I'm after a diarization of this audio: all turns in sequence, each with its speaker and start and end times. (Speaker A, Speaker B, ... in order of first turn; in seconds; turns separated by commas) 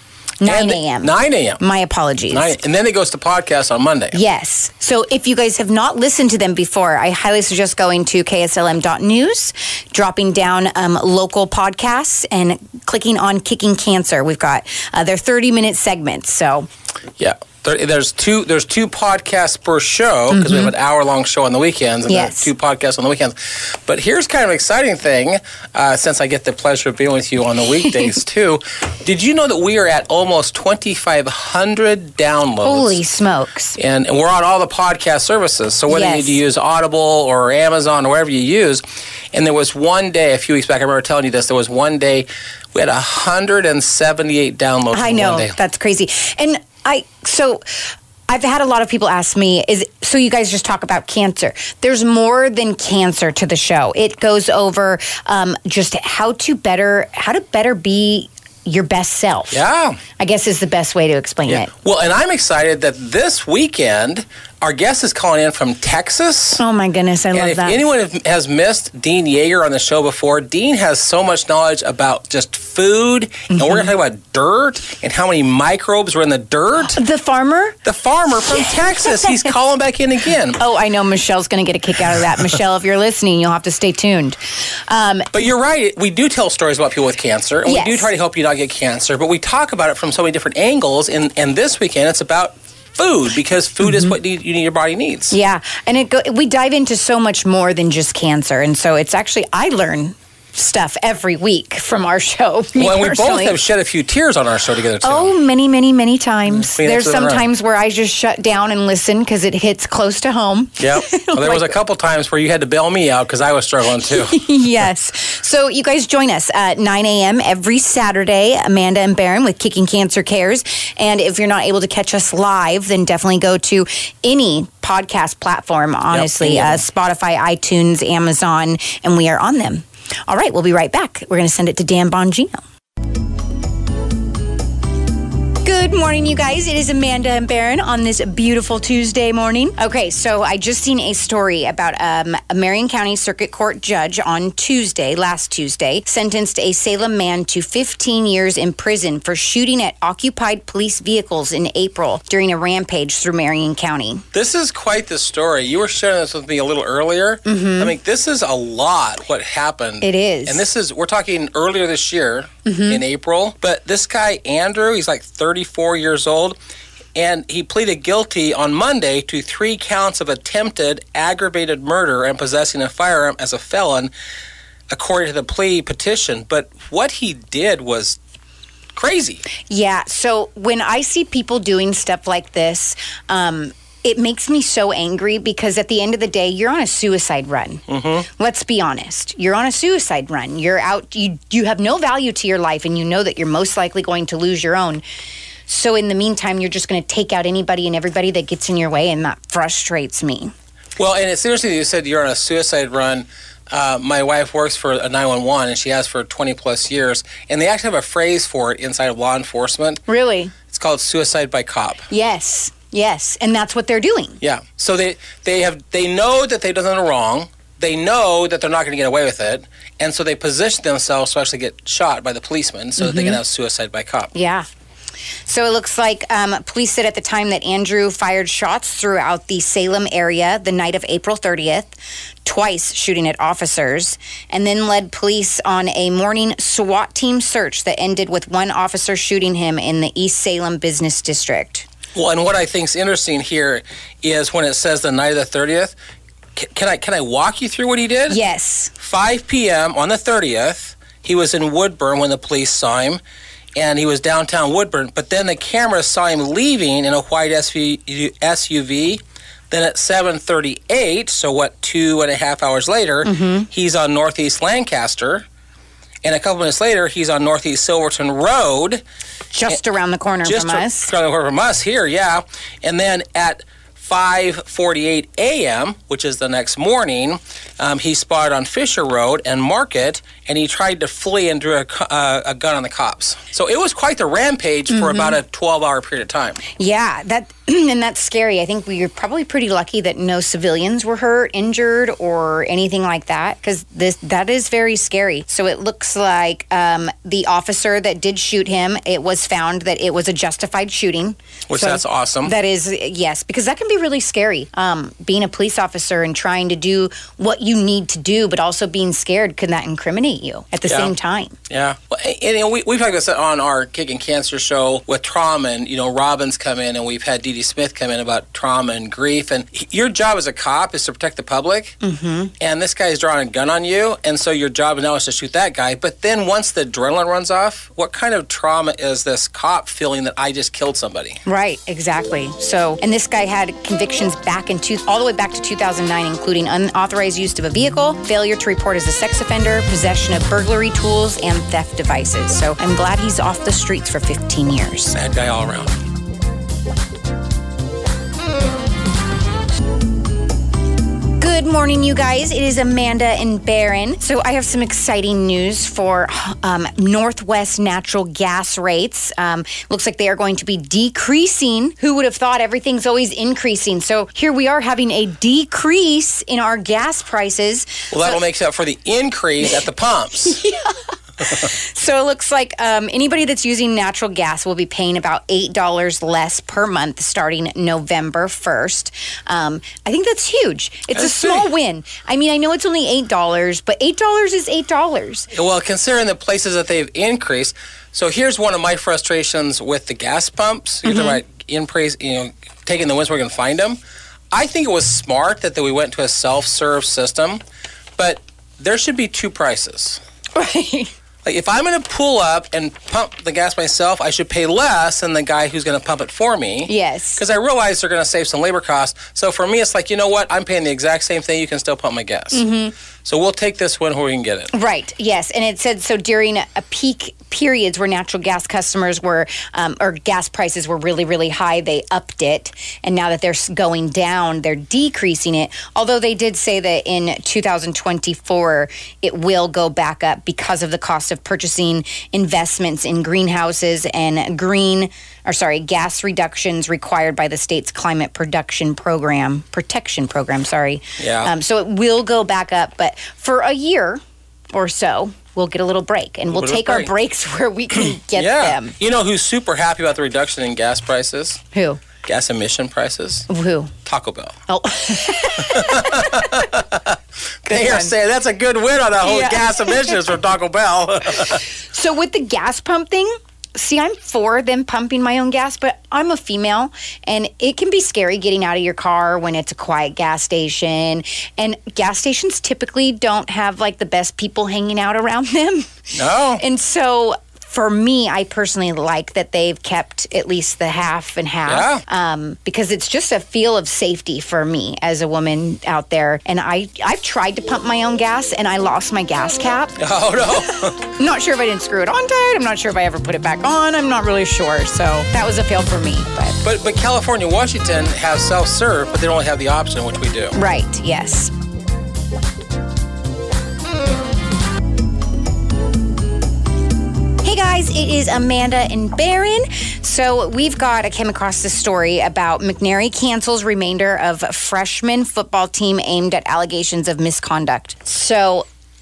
Speaker A: 0.4-2.5, Speaker B: 0.4-1.6, Speaker B: 2.3-4.2, Speaker A: 4.1-16.7, Speaker B: 17.2-33.0, Speaker A: 20.3-20.7, Speaker A: 22.1-22.5, Speaker A: 27.9-28.1, Speaker A: 32.6-33.8, Speaker B: 33.8-45.5, Speaker A: 35.9-36.4, Speaker A: 44.9-59.6, Speaker B: 59.5-60.0, Speaker A: 60.2-61.7, Speaker B: 61.5-66.6, Speaker A: 66.6-67.8, Speaker B: 67.3-77.0, Speaker A: 73.5-73.9, Speaker A: 76.8-77.8, Speaker B: 77.8-80.6, Speaker A: 78.5-79.5, Speaker A: 80.5-85.3, Speaker B: 85.3-95.3, Speaker A: 87.6-88.1, Speaker A: 93.8-94.1, Speaker A: 95.3-103.6, Speaker B: 102.8-105.3, Speaker A: 105.0-111.7, Speaker B: 106.5-107.5, Speaker B: 110.8-114.4, Speaker A: 113.9-132.6, Speaker B: 126.1-126.8, Speaker A: 135.6-154.2, Speaker B: 154.3-166.6, Speaker A: 157.4-157.9, Speaker A: 160.0-160.6, Speaker A: 162.7-163.0, Speaker B: 167.2-174.1, Speaker B: 174.9-178.2, Speaker B: 178.9-179.4, Speaker A: 179.7-195.0, Speaker B: 187.9-188.2, Speaker A: 195.7-200.5, Speaker B: 201.0-210.0, Speaker A: 210.1-210.5, Speaker B: 210.7-212.1, Speaker A: 212.1-214.4, Speaker B: 214.4-224.3, Speaker A: 223.0-223.4, Speaker A: 224.3-224.7, Speaker A: 225.4-241.9, Speaker B: 242.1-245.9, Speaker B: 246.6-248.4, Speaker A: 248.3-248.9, Speaker B: 249.0-253.2, Speaker B: 253.8-265.4, Speaker A: 263.2-263.7, Speaker B: 266.2-269.0, Speaker A: 269.5-271.1, Speaker B: 270.4-286.6, Speaker A: 284.9-285.4, Speaker A: 286.7-311.6, Speaker B: 301.7-302.5, Speaker B: 310.9-311.1, Speaker B: 311.7-321.9, Speaker A: 322.0-322.5, Speaker B: 322.6-331.4, Speaker A: 331.4-345.1, Speaker B: 345.1-346.0, Speaker A: 351.4-368.4, Speaker B: 368.1-370.6, Speaker A: 370.5-385.5, Speaker B: 381.1-381.7, Speaker B: 385.5-394.0, Speaker A: 391.0-391.4, Speaker B: 394.5-397.6, Speaker B: 398.2-400.2, Speaker A: 400.5-401.1, Speaker B: 401.4-412.6, Speaker A: 406.9-407.4, Speaker A: 412.5-412.9, Speaker B: 413.2-414.7, Speaker A: 414.7-444.2, Speaker B: 441.2-441.5, Speaker A: 444.7-448.9, Speaker B: 446.5-447.1, Speaker B: 447.9-451.6, Speaker A: 451.7-452.0, Speaker B: 452.2-453.5, Speaker A: 453.5-453.9, Speaker B: 454.0-454.5, Speaker A: 454.7-456.5, Speaker B: 455.6-461.6, Speaker A: 457.7-458.1, Speaker A: 459.2-460.1, Speaker A: 461.5-490.0, Speaker B: 476.1-476.6, Speaker B: 481.6-482.0, Speaker B: 490.0-491.0, Speaker A: 490.8-496.6, Speaker B: 496.6-500.5, Speaker A: 500.5-501.5, Speaker A: 507.4-518.6